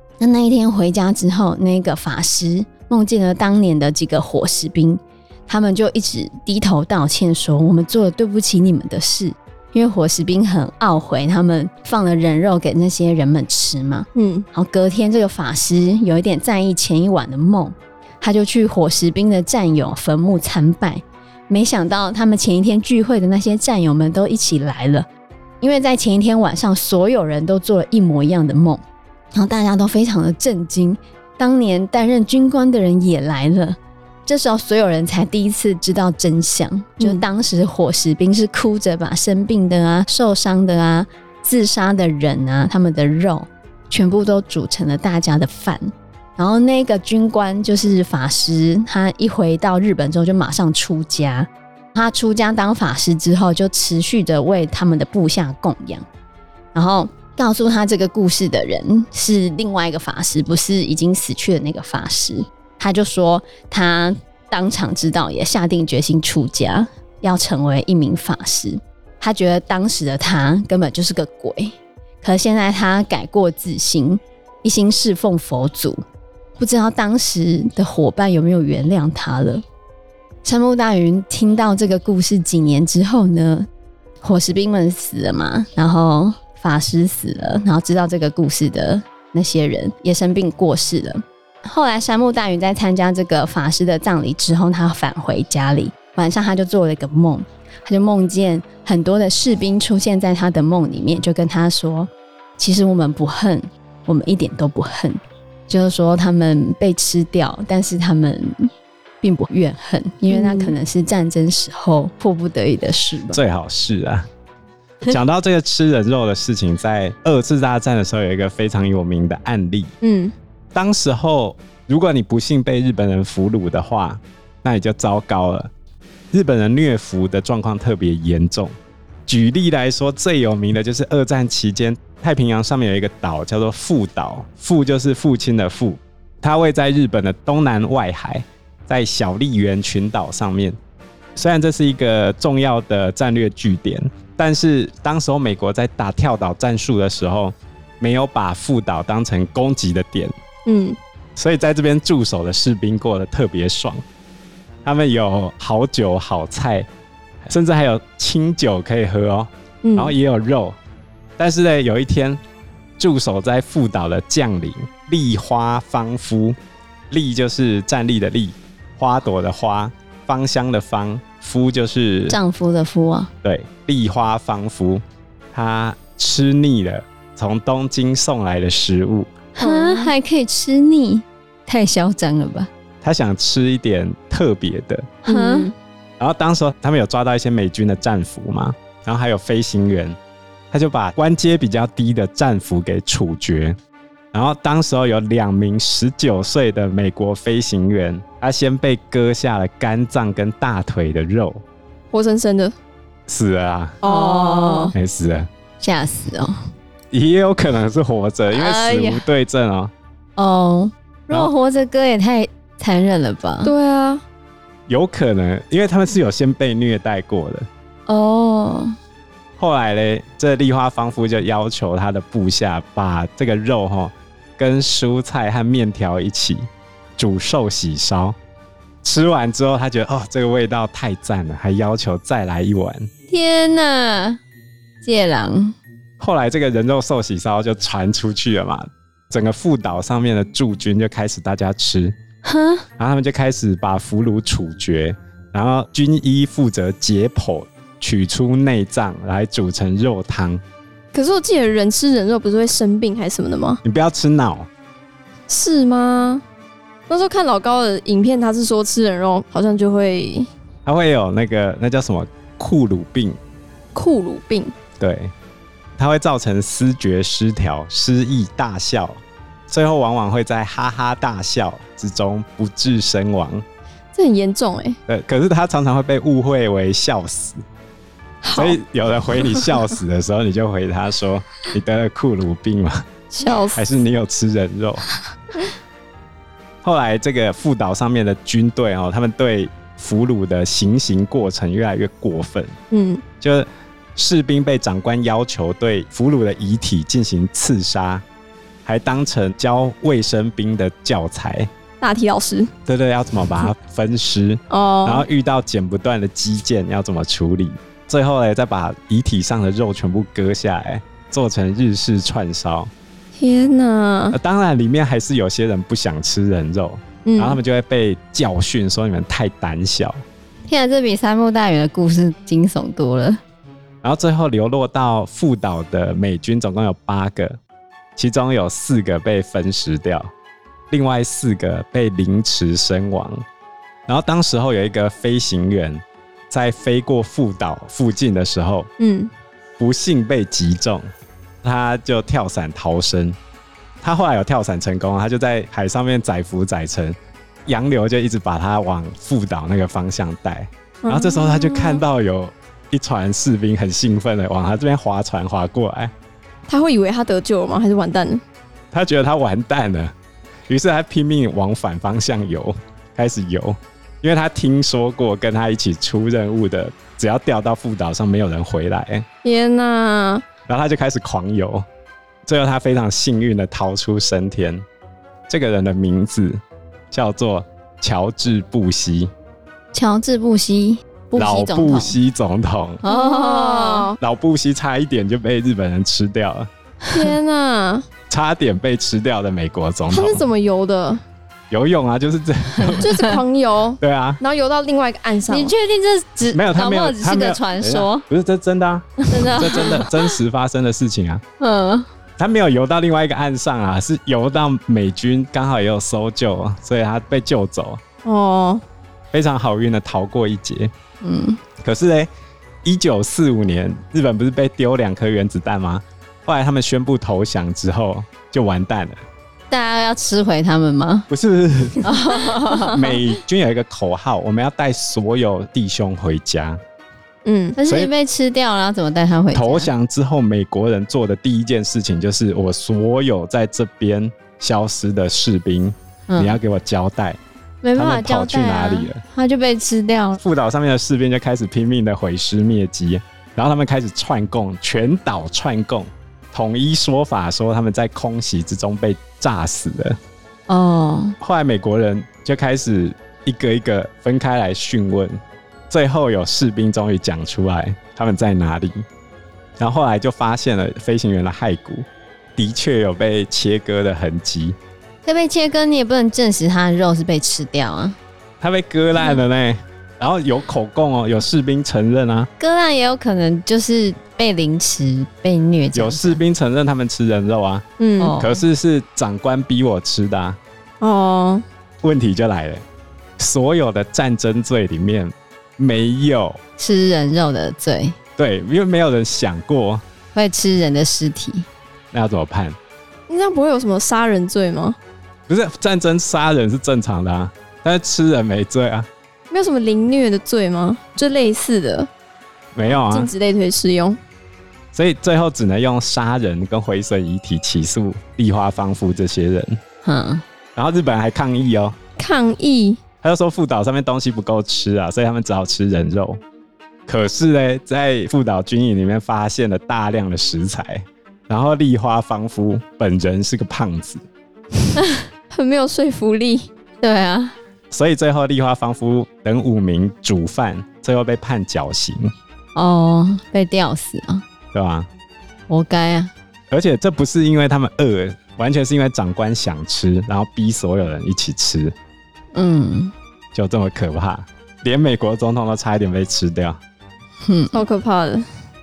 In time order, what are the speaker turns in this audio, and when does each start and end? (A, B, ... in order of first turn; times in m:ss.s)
0:00.2-0:25.1 A
0:14.1-0:14.4 B
0:25.6-0:28.8 A
0:29.3-0:56.0 A
0:56.7-1:16.0 A
1:16.6-1:19.6 A
1:20.4-1:23.7 A
1:24.2-1:48.7 A
1:49.2-1:53.4 A
1:50.3-1:50.7 B
1:53.3-1:54.3 C
1:55.0-1:59.9 C
2:00.0-2:00.3 B
2:00.7-2:05.7 C
2:06.3-2:08.7 C
2:09.3-2:20.8 C
2:21.4-2:30.3 C
2:30.6-2:31.0 B
2:31.4-2:34.0 C
2:34.8-2:36.9 C
2:37.4-2:40.8 C
2:39.8-2:40.1 B
2:41.4-2:42.4 C
2:43.0-2:46.6 C
2:47.1-2:52.4 C
2:52.3-2:53.3 A
2:53.4-2:55.0 C
2:55.5-2:59.3 C
2:59.6-3:00.1 B
2:59.6-3:02.7 A
3:03.0-3:05.2 C
3:05.2-3:05.7 A
3:05.3-3:05.7 B
3:06.2-3:10.2 C
3:10.7-3:13.8 C
3:14.3-3:21.6 C
3:22.1-3:22.7 B
3:23.3-3:24.0 C
3:24.0-3:24.9 B
3:24.0-3:24.9 A
3:24.9-3:25.5 C
3:25.8-3:26.5 A
3:27.1-3:29.9 C
3:28.5-3:29.2 A
3:30.4-3:33.7 A
3:33.6-3:34.2 B
3:34.9-3:37.7 C
3:38.1-3:38.9 A
3:39.6-3:48.4 C
3:49.0-3:53.1 C
3:53.3-3:54.4 A
3:55.0-3:55.8 A
3:56.2-4:02.2 C
4:02.4-4:02.8 A
4:03.0-4:10.6 C
4:11.1-4:13.8 B
4:13.8-4:14.7 C
4:15.5-4:16.4 B
4:17.1-4:20.5 B
4:20.8-4:23.4 C
4:23.9-4:24.7 B
4:25.0-4:25.3 C
4:26.0-4:33.6 C
4:34.1-4:35.0 B
4:35.1-4:37.6 C
4:38.4-4:38.8 B
4:38.5-4:43.0 C
4:39.4-4:39.7 B
4:43.3-4:43.9 B
4:43.7-4:45.0 C
4:46.8-4:52.7 C
4:52.9-4:53.2 B
4:53.4-4:58.2 C
4:58.8-5:01.7 C
5:02.0-5:02.7 B
5:02.8-5:12.9 C
5:04.7-5:05.2 B
5:13.3-5:14.4 B
5:14.3-5:20.2 C
5:17.2-5:17.6 B
5:20.7-5:23.4 A
5:24.0-5:27.6 C
5:28.2-5:30.3 C
5:30.9-5:33.4 C
5:34.1-5:38.9 C
5:39.0-5:39.3 B
5:39.8-5:41.0 C
5:41.6-5:43.4 C
5:44.0-5:56.1 C
5:51.0-5:52.0 B
5:56.7-5:58.4 B
5:58.9-6:00.1 C
6:00.7-6:09.2 C
6:09.4-6:10.4 B
6:10.7-6:11.8 C
6:12.4-6:14.8 C
6:15.5-6:19.3 C
6:19.9-6:22.2 A
6:21.4-6:23.0 C
6:23.0-6:24.1 A
6:23.0-6:24.2 B
6:24.2-6:26.7 C
6:27.1-6:28.0 B
6:28.3-6:30.4 C
6:30.1-6:31.2 B
6:31.7-6:33.2 C
6:32.8-6:33.4 A
6:33.0-6:35.7 B
6:34.0-6:34.4 C
6:35.5-6:38.2 A
6:36.5-6:41.4 C
6:39.3-6:40.3 A
6:39.3-6:40.0 B
6:41.6-6:42.1 A
6:42.4-6:48.0 C
6:48.2-6:48.8 B
6:49.3-6:50.9 C
6:51.2-6:51.6 A
6:51.8-6:52.3 C
6:52.8-6:59.2 C
6:59.7-7:01.3 A
7:01.3-7:02.2 C
7:02.0-7:03.1 A
7:02.7-7:06.8 C
7:07.4-7:07.8 B
7:07.8-7:09.9 A
7:07.8-7:08.1 C
7:09.5-7:17.4 C
7:16.3-7:16.6 A
7:17.8-7:20.4 A
7:18.0-7:19.2 C
7:20.4-7:30.2 C
7:30.7-7:31.4 A
7:31.4-7:35.4 C
7:35.9-7:39.0 C
7:39.8-7:44.8 C
7:45.2-7:48.2 A
7:48.6-7:52.5 C
7:52.6-7:56.4 A
7:55.9-7:57.8 C
7:58.0-7:58.4 B
7:58.2-7:58.6 A
7:58.4-8:00.6 C
8:01.0-8:01.6 B
8:02.0-8:02.8 C
8:03.4-8:06.6 C
8:06.8-8:08.2 A
8:08.4-8:10.0 C
8:10.3-8:11.7 A
8:12.1-8:12.8 C
8:13.3-8:15.0 B
8:15.5-8:19.1 C
8:19.5-8:22.1 B
8:22.7-8:23.3 C
8:22.9-8:24.2 B
8:24.9-8:29.8 C
8:30.0-8:30.4 A
8:30.8-8:32.0 C
8:32.2-8:33.0 B
8:33.2-8:36.4 C
8:37.1-8:44.2 C
8:45.5-8:46.7 B
8:47.0-8:47.6 A
8:47.9-8:52.3 C
8:52.7-8:54.4 A
8:54.7-8:55.1 C
8:55.7-8:56.3 A
8:56.7-9:01.9 C
9:02.5-9:03.1 A
9:03.5-9:06.8 C
9:07.4-9:07.8 A
9:07.7-9:08.4 B